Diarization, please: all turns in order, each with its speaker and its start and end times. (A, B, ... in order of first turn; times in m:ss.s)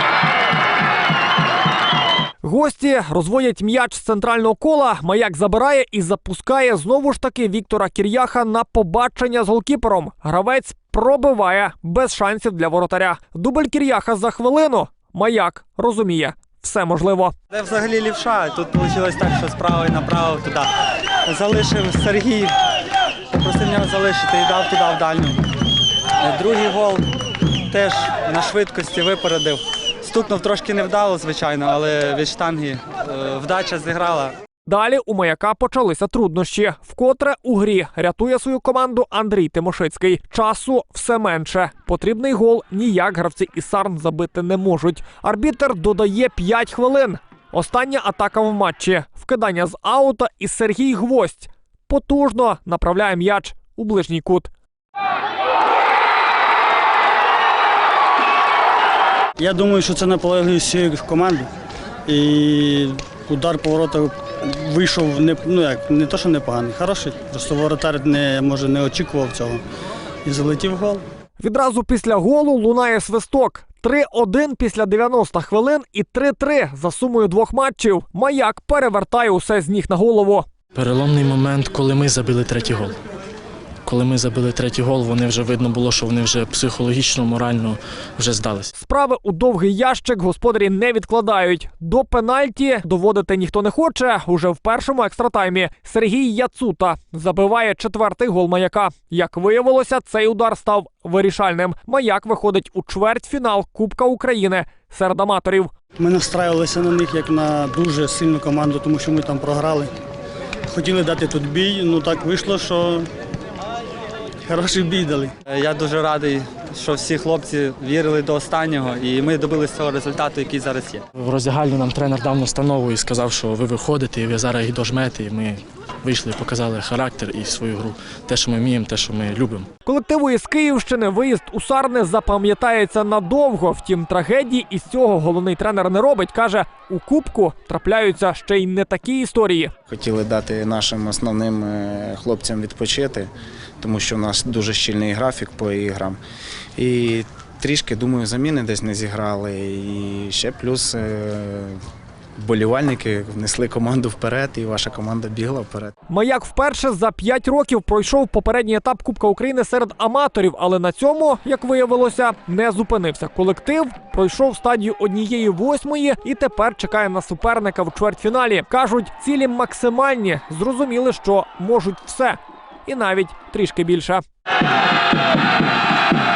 0:02.4-0:17.3 A
0:17.5-0:20.7 B
0:21.2-0:22.5 B
0:23.3-0:25.4 B
0:26.2-0:27.1 B
0:27.7-0:34.3 B
0:34.6-0:54.5 A
0:59.4-1:01.5 C
1:02.1-1:09.6 C
1:10.2-1:11.0 C
1:11.4-1:20.4 A
1:20.7-1:23.0 D
1:23.8-1:28.7 D
1:28.7-1:45.7 A
1:46.0-1:49.9 C
1:50.7-1:53.1 C
1:54.4-1:55.3 C
1:55.5-2:01.0 B
2:01.2-2:09.7 D
2:09.8-2:19.7 A
2:19.9-2:26.2 E
2:26.8-2:31.8 E
2:32.4-2:35.9 E
2:36.1-2:54.2 A